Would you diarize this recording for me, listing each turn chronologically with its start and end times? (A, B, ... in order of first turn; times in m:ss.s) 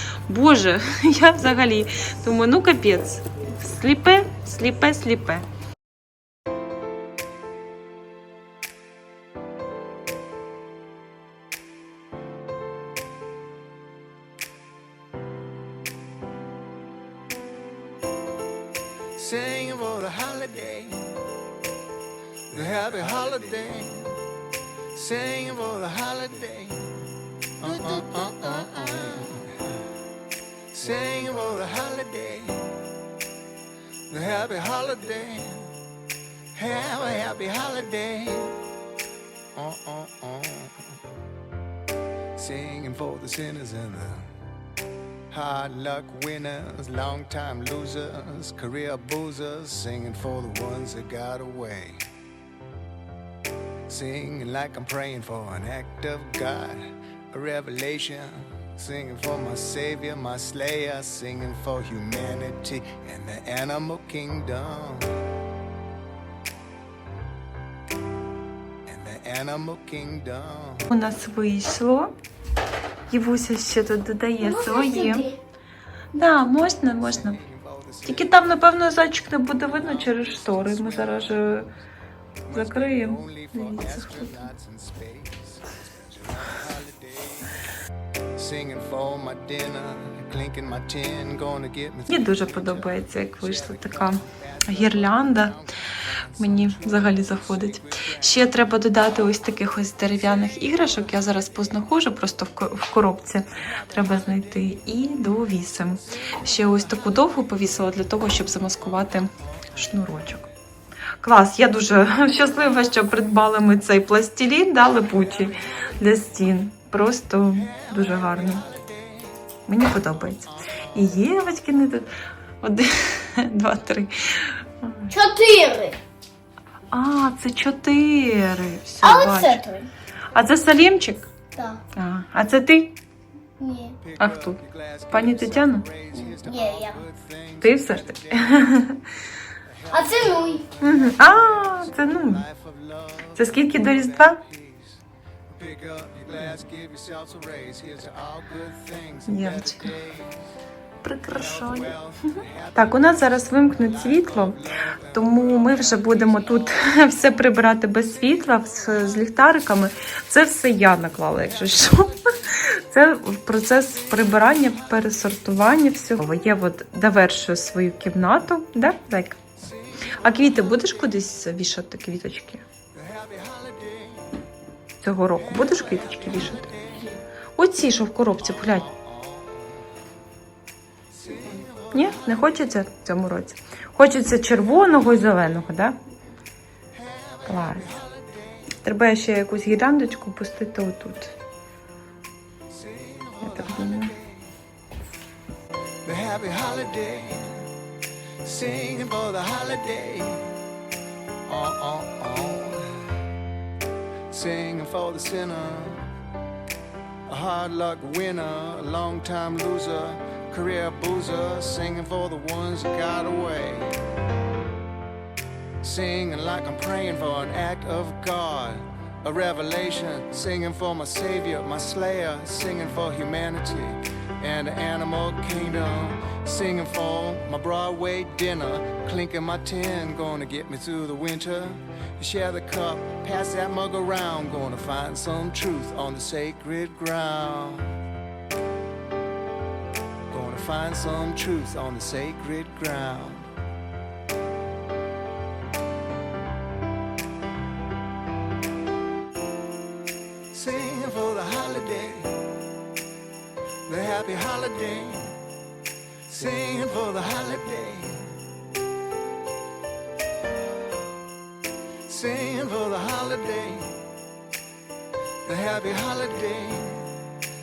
0:00.3-0:05.5 A
0:19.2-0:21.3 B
0:22.5-0:24.2 B
0:24.9-0:29.8 B
0:30.7-0:32.8 B
0:34.1-0:35.8 B
0:36.5-0:38.6 B
0:39.5-0:40.9 B
0:42.4-0:44.3 B
0:45.3-0:52.0 B
0:53.9-1:05.2 B
1:08.9-1:10.9 B
1:10.9-1:12.1 A
1:13.1-1:15.3 A
1:14.4-1:15.4 C
1:16.1-1:17.4 A
1:16.3-1:21.6 B
1:18.0-1:21.7 A
1:22.5-1:27.5 B
1:22.5-1:24.5 A
1:28.4-1:38.6 B
1:32.1-1:35.6 A
1:36.4-1:50.5 A
1:40.5-1:40.8 B
1:46.4-1:46.9 B
1:51.2-1:58.6 A
1:57.7-1:59.3 B
1:59.7-2:02.1 A
2:02.6-2:05.1 A
2:05.1-2:06.0 C
2:06.9-2:09.6 A
2:09.0-2:09.9 C
2:10.3-2:11.3 A
2:11.5-2:11.8 C
2:11.9-2:12.9 A
2:13.6-2:14.0 C
2:14.0-2:18.6 B
2:14.2-2:14.6 A
2:15.1-2:15.9 A
2:16.3-2:17.0 C
2:17.6-2:19.0 A
2:19.6-2:30.4 B
2:19.9-2:20.6 C
2:20.8-2:22.4 A
2:23.4-2:24.4 A
2:29.2-2:29.9 A
2:31.0-2:32.0 A
2:31.3-2:36.8 B
2:32.7-2:49.4 A
2:50.2-2:52.6 A
2:52.9-2:54.3 B
2:55.0-2:56.7 A
2:55.5-2:57.1 B
2:57.6-2:58.9 A
2:58.4-2:59.8 B
3:01.1-3:02.6 B
3:01.9-3:06.0 A
3:06.9-3:08.6 B
3:07.4-3:07.9 A
3:08.8-3:11.3 A
3:12.7-3:14.5 B
3:13.4-3:14.1 A
3:16.0-3:17.8 B
3:18.4-3:20.6 B
3:21.5-3:23.2 B
3:24.3-3:26.1 B
3:27.3-3:34.0 B
3:35.8-3:58.0 B
4:00.3-4:03.5 B
4:10.5-4:12.5 B
4:13.9-4:15.4 B
4:16.3-4:18.4 B
4:22.1-4:24.0 B
4:25.4-4:27.2 B